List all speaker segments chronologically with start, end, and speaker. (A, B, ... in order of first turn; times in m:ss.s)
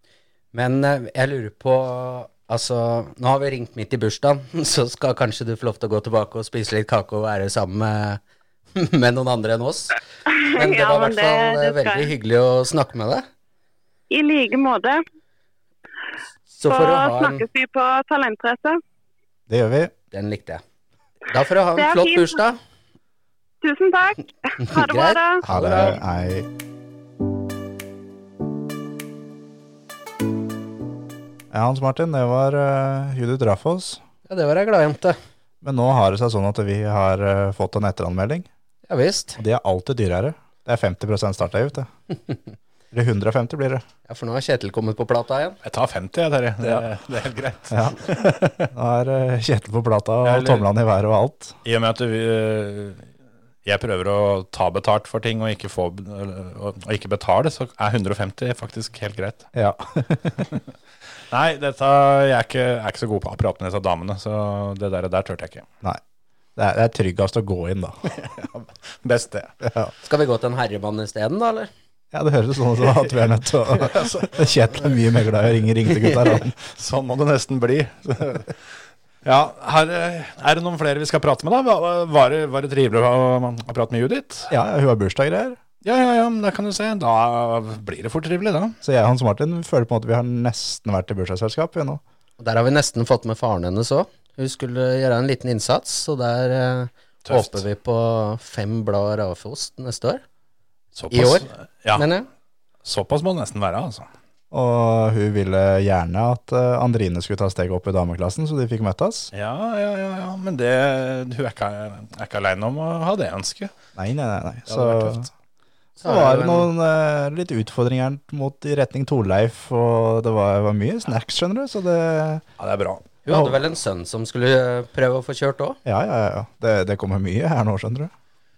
0:00.5-0:08.2 A
0:08.7-0:09.9 A
0:10.3-0:12.1 B
0:10.5-0:13.2 A
0:14.1-0:15.0 B
0:16.5-0:17.4 A
0:16.7-0:18.8 B
0:19.5-0:19.9 C
0:20.1-0:20.6 A
0:21.3-0:22.6 A
0:21.8-0:22.4 B
0:23.6-0:25.4 B
0:24.6-0:26.0 A
0:25.5-0:26.5 C
0:31.5-0:34.0 C
0:34.3-0:35.2 A
0:35.6-0:38.5 C
0:38.9-0:39.4 A
0:39.4-0:41.9 C
0:42.9-0:43.8 C
0:44.1-0:45.6 A
0:45.6-0:48.7 D
0:47.7-0:51.5 C
0:51.6-0:53.1 D
0:53.6-0:59.5 D
0:59.5-1:00.5 C
1:01.3-1:05.6 D
1:06.6-1:08.1 C
1:08.2-1:09.5 D
1:09.6-1:09.9 C
1:10.0-1:11.7 A
1:12.1-1:16.5 C
1:16.7-1:18.5 D
1:19.2-1:24.5 D
1:24.5-1:25.6 C
1:25.8-1:28.8 D
1:28.8-1:32.0 C
1:32.4-1:40.2 A
1:37.2-1:37.6 D
1:41.0-1:42.0 D
1:41.1-1:42.3 A
1:42.8-1:44.1 D
1:44.5-1:49.3 C
1:49.3-1:53.7 D
1:54.0-1:55.3 C
1:54.7-1:55.3 D
1:56.0-1:56.7 A
1:56.0-2:02.4 C
2:02.6-2:03.0 D
2:03.2-2:05.8 A
2:03.3-2:03.6 C
2:05.8-2:08.1 C